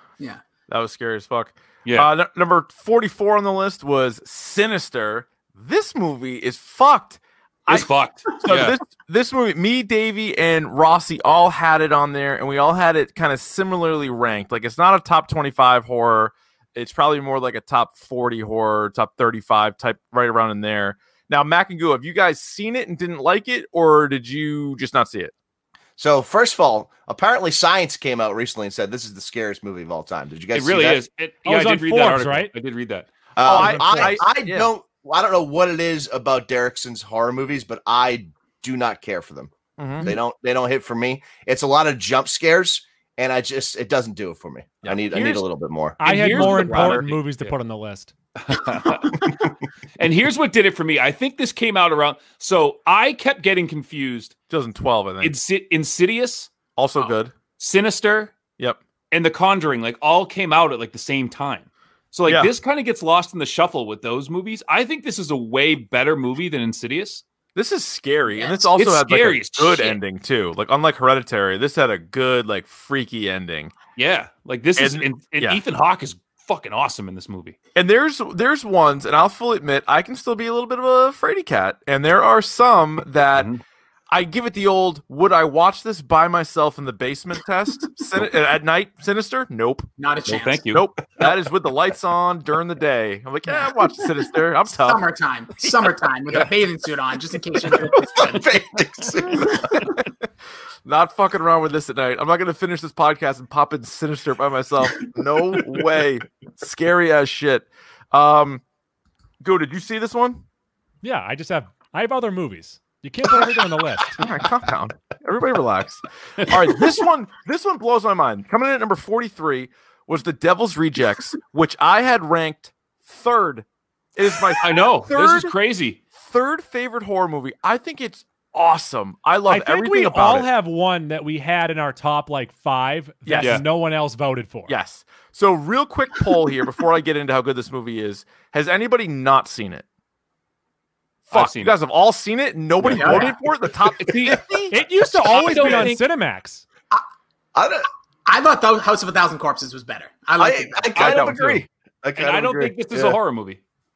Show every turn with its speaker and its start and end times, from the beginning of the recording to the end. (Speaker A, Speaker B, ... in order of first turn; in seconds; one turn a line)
Speaker A: 0.7-7.9
Speaker B: 1.8-2.1
Speaker B: 7.7-8.8
Speaker A: 8.4-25.3
Speaker C: 26.0-31.0
Speaker B: 30.5-33.1
Speaker D: 31.4-32.5
Speaker C: 33.4-46.0
Speaker A: 33.4-34.7
Speaker A: 39.8-40.1
Speaker A: 44.8-45.4
Speaker D: 46.0-48.1
Speaker B: 46.0-47.5
Speaker A: 46.4-47.0
Speaker B: 48.4-49.3
Speaker B: 50.0-54.3
Speaker A: 54.5-55.4
Speaker B: 55.2-56.5
Speaker A: 56.8-57.3
Speaker B: 57.6-58.3
Speaker B: 59.1-67.2
Speaker A: 62.2-62.5
Speaker A: 67.5-73.7
Speaker E: 68.3-68.7
Speaker B: 68.8-70.0
Speaker B: 74.0-77.5
Speaker A: 74.8-75.6
Speaker A: 77.7-83.5
Speaker B: 83.3-83.6
Speaker A: 84.1-89.9
Speaker E: 90.0-90.8
Speaker B: 90.3-90.8
Speaker A: 90.7-95.0
Speaker E: 94.7-98.5
Speaker C: 98.1-99.9
Speaker A: 100.8-108.6
Speaker A: 109.4-110.4
Speaker D: 111.0-114.2
Speaker A: 114.2-125.5
Speaker B: 124.6-126.0
Speaker A: 126.1-130.5
Speaker D: 129.5-134.7
Speaker A: 133.2-133.6
Speaker B: 133.4-133.6
Speaker A: 134.7-139.8
Speaker A: 141.3-145.9
Speaker B: 141.3-141.7
Speaker B: 142.8-143.2
Speaker E: 142.9-143.3
Speaker B: 144.0-144.4
Speaker D: 144.7-146.6
Speaker B: 145.1-146.0
Speaker C: 147.5-147.9
Speaker E: 148.2-150.9
Speaker C: 150.4-153.2
Speaker A: 151.0-151.6
Speaker B: 151.0-151.3
Speaker B: 152.2-153.6